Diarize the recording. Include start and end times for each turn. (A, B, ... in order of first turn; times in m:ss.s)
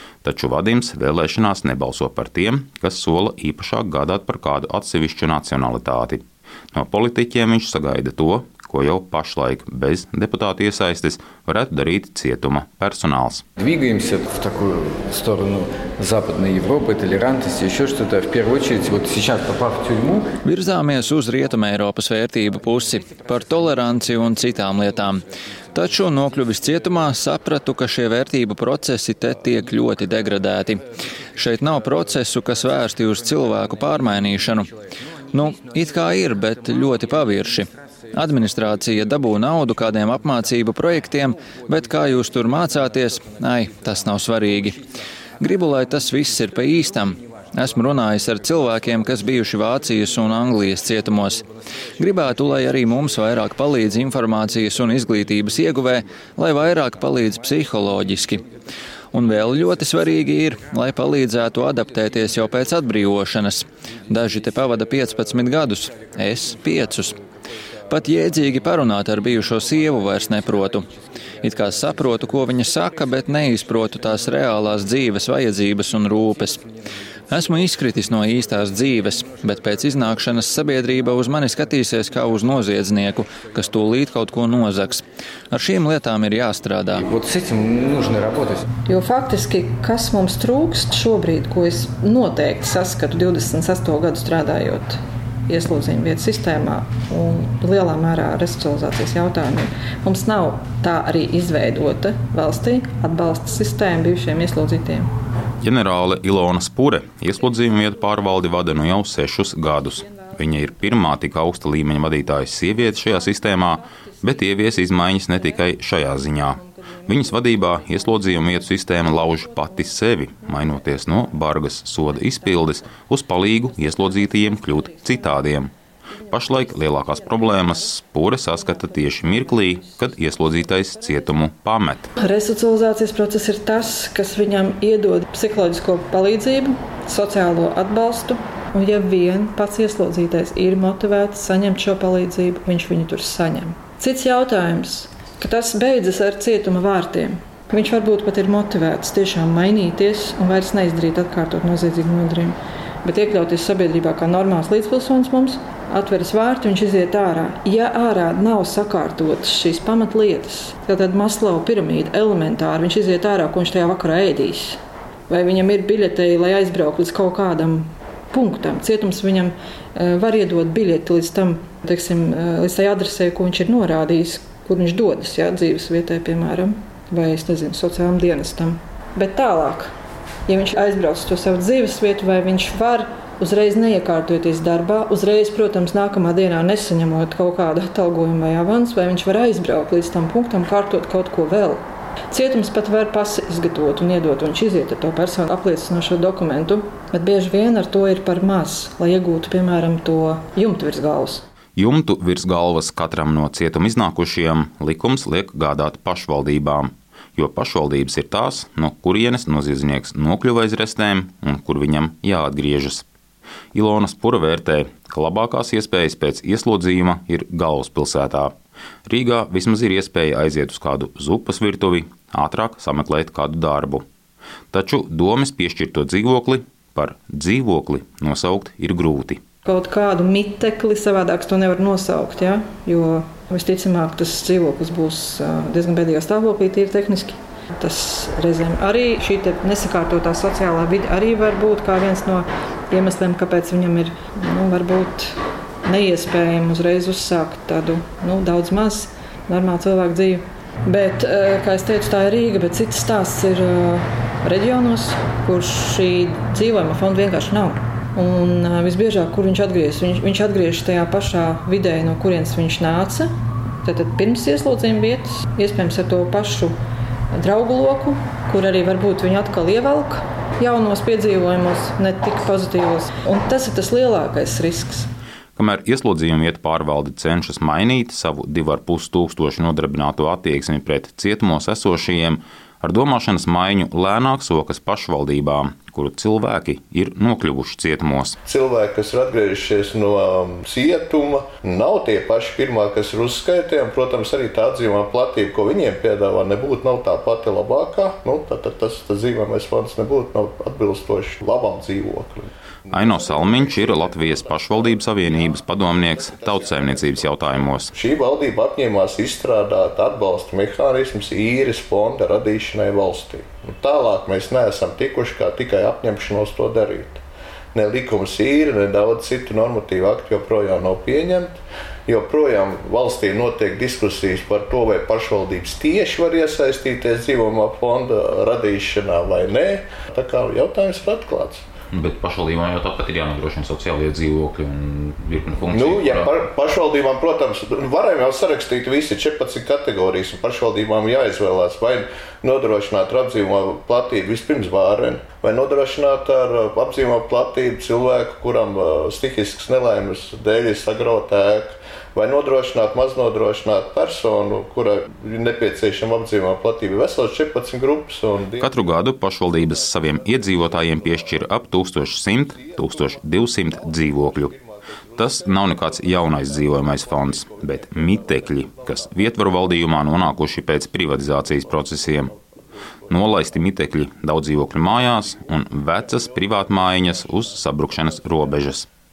0:00.2-0:13.4 A
0:13.6-0:20.3 B
0:20.4-0:30.8 C
0:31.4-0:34.7 C
0:35.3-0:44.8 C
0:45.4-0:51.4 C
0:52.0-0:58.4 C
0:59.1-1:07.2 C
1:07.9-1:10.9 C
1:11.4-1:16.6 C
1:17.3-1:27.0 C
1:27.0-1:28.6 B
1:28.9-1:45.1 D
1:45.6-2:05.7 A
1:49.8-1:50.7 D
1:53.1-1:55.8 D
1:56.8-1:59.5 D
2:03.7-2:04.9 D
2:06.3-2:12.1 A
2:12.2-2:59.9 D
3:00.5-3:21.4 D
3:21.8-3:33.1 A
3:33.8-3:38.5 A
3:39.1-3:44.0 A
3:44.7-3:49.4 A
3:49.6-4:23.3 D
4:23.8-4:26.8 D
4:27.4-4:35.1 D
4:35.6-4:48.4 A
4:48.4-5:17.2 E
5:02.9-5:07.9 A
5:17.7-5:31.6 E
5:31.9-5:36.3 A
5:35.7-5:58.8 E
5:58.6-6:04.5 A
5:59.6-6:01.5 E
6:02.5-6:09.6 E
6:05.2-6:12.3 A
6:13.1-6:18.9 A
6:17.9-6:18.2 E